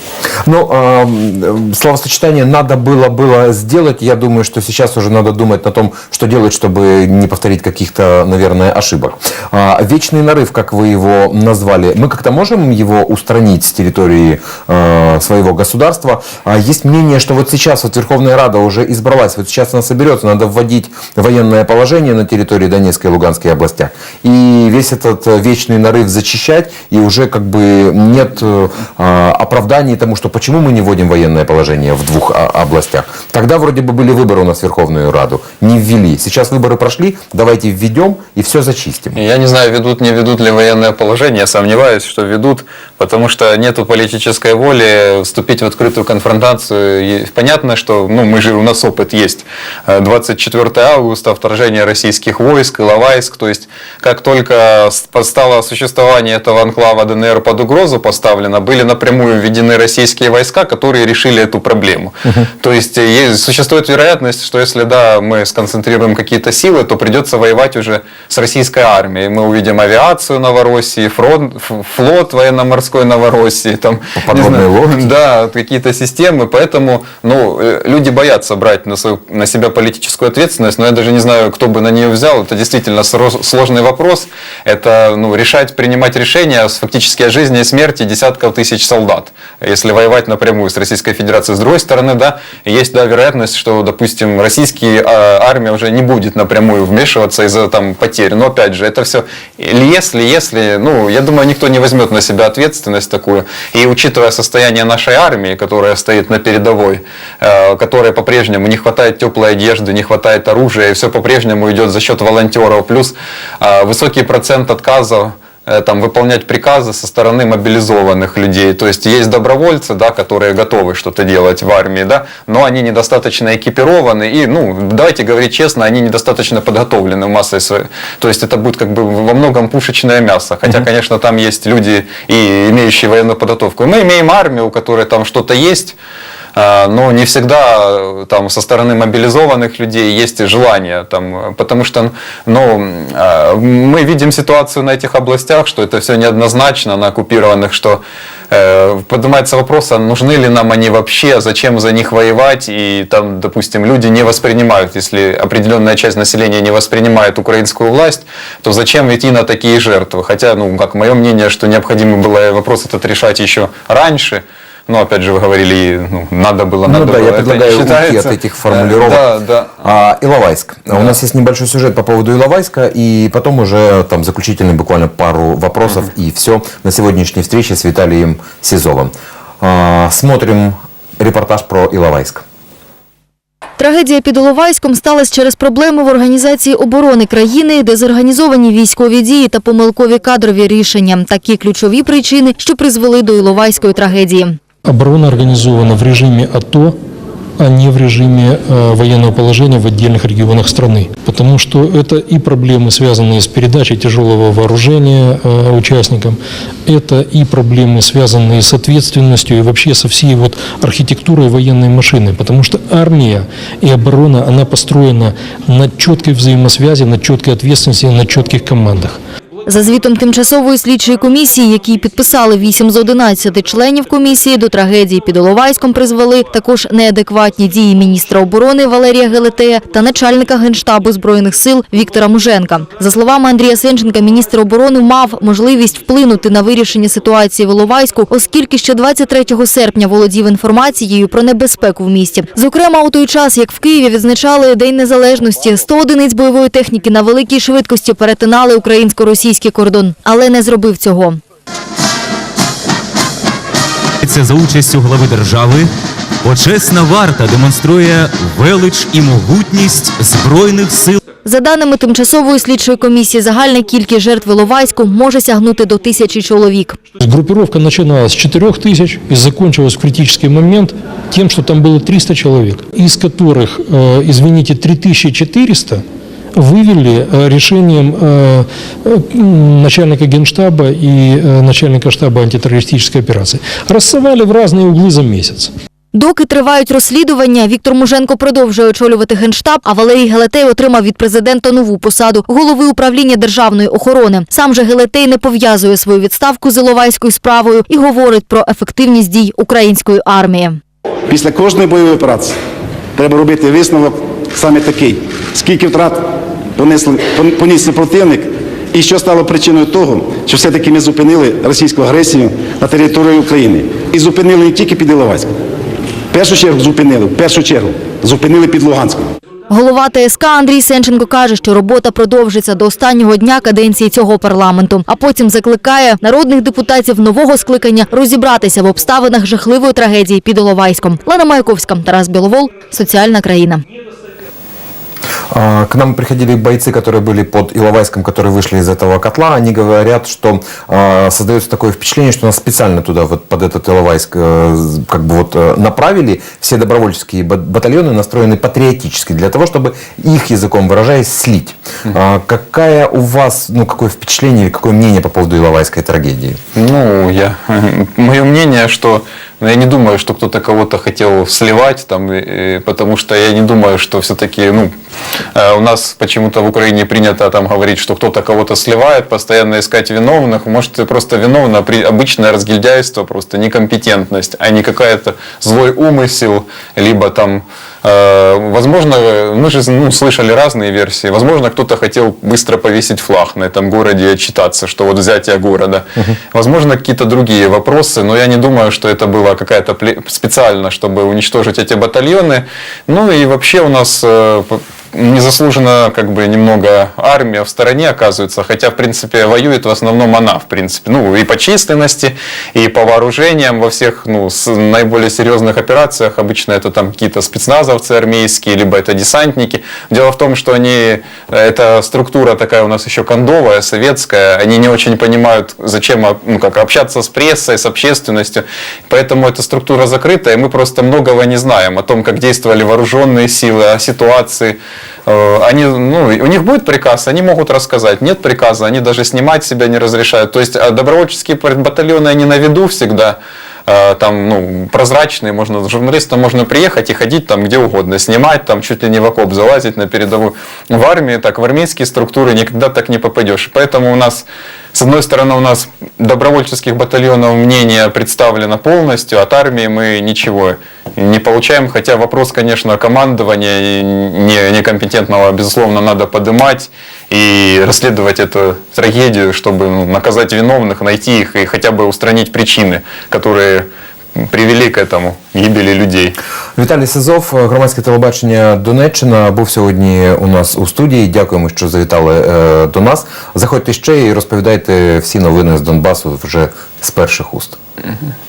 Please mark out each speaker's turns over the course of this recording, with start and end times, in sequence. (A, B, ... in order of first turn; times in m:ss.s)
0:00.4-0:39.2 A
0:39.2-2:16.0 B
1:14.2-1:15.1 A
2:16.6-2:49.8 B
2:46.8-3:02.4 A
3:03.8-3:14.6 C
3:14.9-3:17.0 D
3:17.6-3:39.2 D
3:39.7-4:11.4 C
4:14.2-4:15.9 E
4:16.4-4:21.2 E
4:21.4-4:27.0 C
4:27.2-4:45.7 D
4:46.1-5:00.8 C
5:01.3-5:02.6 F
5:03.2-5:15.6 F
5:16.3-5:19.3 F
5:19.7-5:33.8 C
5:35.5-5:56.6 A
5:56.8-6:04.9 B
6:05.5-7:46.4 B
7:46.8-7:57.8 A